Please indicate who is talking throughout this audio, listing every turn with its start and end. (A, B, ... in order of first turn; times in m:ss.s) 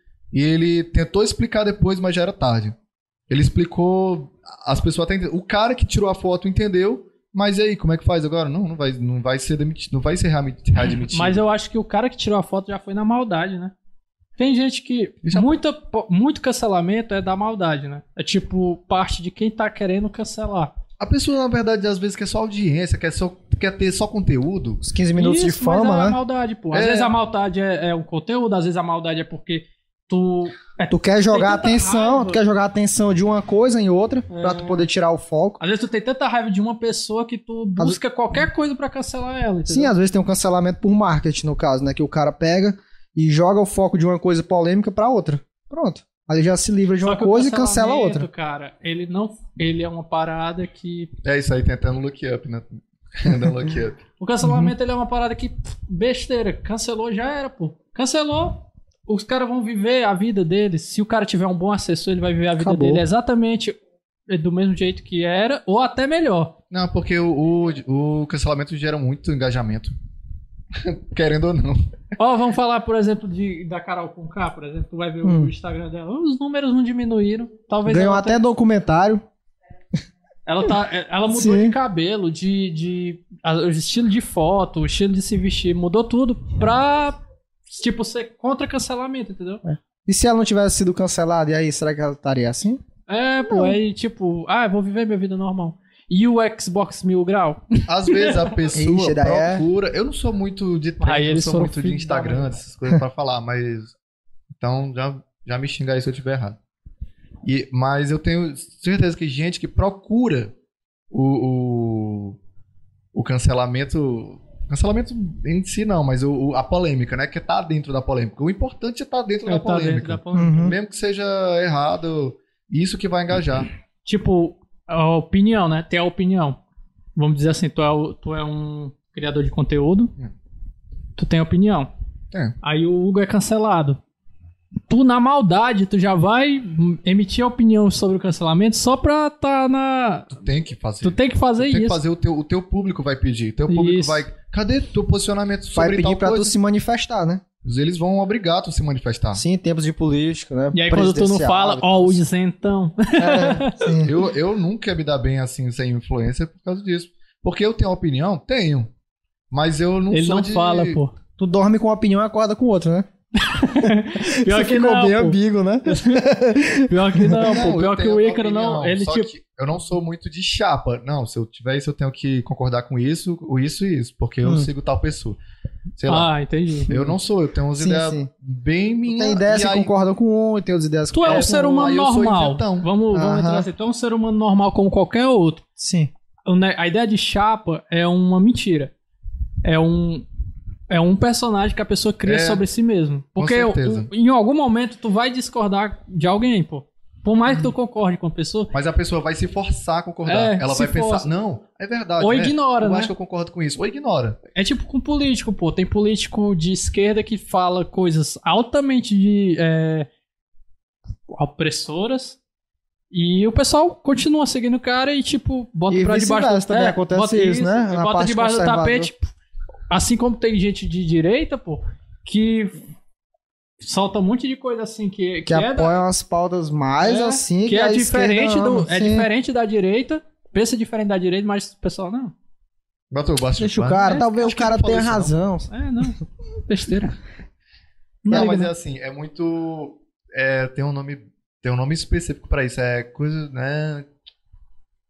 0:00.3-0:02.8 A
0:03.3-0:11.4 A
0:11.1-0:13.7 B
0:14.4-0:20.7 B
0:15.2-0:15.5 A
0:21.0-0:24.8 A
0:24.8-0:26.2 C
0:25.1-0:32.4 B
0:26.7-0:27.1 A
0:30.9-0:35.6 C
0:34.3-0:34.8 B
0:35.6-0:39.9 B
0:39.7-0:48.3 C
0:47.0-0:51.1 B
0:51.2-0:54.0 A
0:54.2-1:03.8 B
0:54.4-0:54.7 C
1:02.6-1:03.0 C
1:04.3-1:06.5 B
1:06.7-1:09.9 A
1:10.8-1:11.8 A
1:12.2-1:18.4 B
1:15.2-1:15.5 C
1:17.8-1:19.2 C
1:20.4-1:29.6 B
1:21.3-1:21.8 C
1:29.7-1:32.8 C
1:33.1-1:38.4 B
1:33.5-1:33.8 C
1:37.9-1:43.9 A
1:38.7-1:39.6 C
1:41.0-1:42.5 B
1:44.6-1:46.6 A
1:47.4-1:50.5 A
1:51.1-1:52.4 A
1:53.1-2:03.7 A
1:59.4-2:00.7 B
2:00.3-2:00.8 C
2:04.0-2:06.6 B
2:07.2-2:10.1 B
2:11.2-2:11.9 B
2:12.6-2:14.0 B
2:14.9-2:20.4 B
2:20.4-2:26.6 A
2:21.0-2:22.0 B
2:23.7-2:24.2 B
2:25.7-2:27.4 C
2:27.6-2:29.4 A
2:29.3-2:32.2 C
2:30.7-2:33.9 B
2:33.2-2:34.1 C
2:34.0-2:38.9 A
2:39.5-2:41.0 A
2:40.1-2:41.1 B
2:41.4-2:43.1 C
2:43.4-2:46.2 B
2:43.8-2:47.4 C
2:46.9-2:49.3 B
2:47.4-2:55.4 A
2:56.0-2:56.3 A
2:56.1-2:56.9 B
2:56.9-2:59.9 A
2:56.9-2:57.1 C
2:57.8-2:58.3 C
2:59.1-3:01.6 C
3:01.1-3:05.6 B
3:01.2-3:02.9 A
3:03.1-3:03.7 C
3:05.8-3:06.1 C
3:06.4-3:08.9 B
3:09.6-3:10.2 B
3:10.9-3:18.7 B
3:12.2-3:12.6 A
3:13.4-3:14.1 A
3:18.7-3:24.4 A
3:20.2-3:21.3 B
3:22.2-3:23.1 B
3:24.5-3:30.1 B
3:31.3-3:32.4 B
3:33.1-3:39.2 B
3:35.9-3:39.1 C
3:39.9-3:42.8 B
3:43.8-3:46.0 B
3:45.5-3:49.3 C
3:47.0-3:52.3 B
3:53.1-3:55.3 A
3:53.6-3:55.7 C
3:55.7-3:57.2 B
3:58.2-3:58.7 B
3:58.3-4:04.1 A